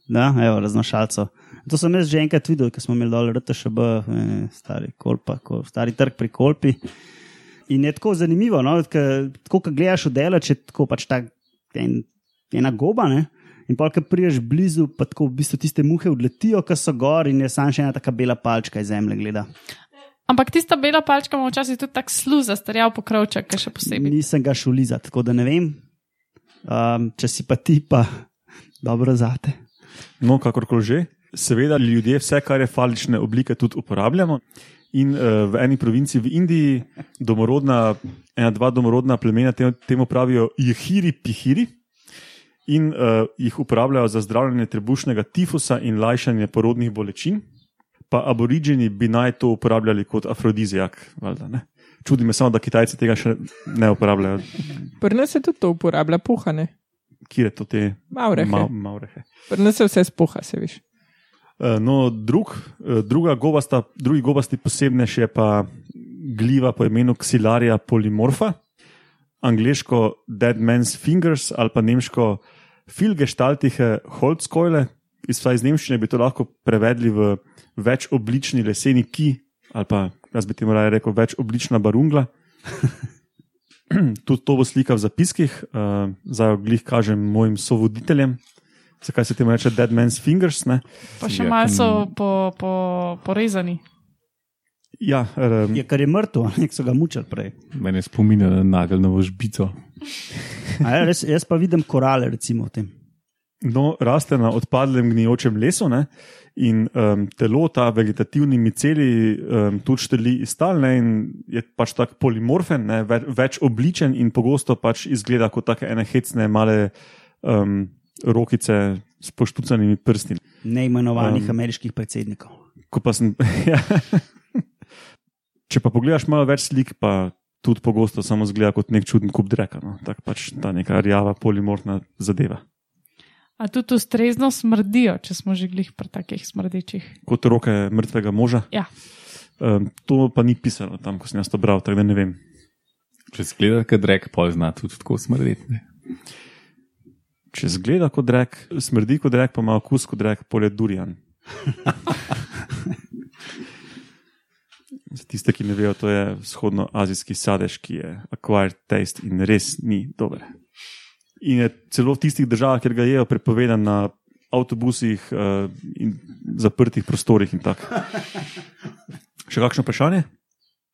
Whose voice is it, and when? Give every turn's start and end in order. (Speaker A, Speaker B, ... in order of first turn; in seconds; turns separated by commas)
Speaker A: 0.1-6.8, Speaker A: 7.7-19.5, Speaker B: 20.3-24.1, Speaker A: 23.9-25.8, Speaker A: 26.6-28.2, Speaker A: 28.8-29.6, Speaker C: 30.2-41.7, Speaker C: 42.7-47.4, Speaker C: 48.1-54.6, Speaker D: 55.0-56.7, Speaker C: 57.3-59.2, Speaker D: 58.1-58.7, Speaker D: 59.5-60.8, Speaker C: 61.6-68.6, Speaker C: 69.4-82.3, Speaker C: 83.9-88.4, Speaker C: 89.0-90.8, Speaker E: 91.2-92.1, Speaker B: 91.2-93.8, Speaker C: 95.0-95.8, Speaker A: 95.7-97.5, Speaker E: 97.7-99.7, Speaker A: 100.8-102.9, Speaker C: 103.6-116.9, Speaker C: 117.4-120.4, Speaker A: 120.6-122.6, Speaker C: 121.2-121.6, Speaker C: 122.9-124.6, Speaker C: 125.7-132.6, Speaker B: 133.6-137.2, Speaker C: 137.3-138.7, Speaker C: 139.6-142.4, Speaker E: 143.3-145.8, Speaker C: 147.5-151.2, Speaker C: 155.1-160.5, Speaker C: 161.4-168.0, Speaker C: 169.5-170.3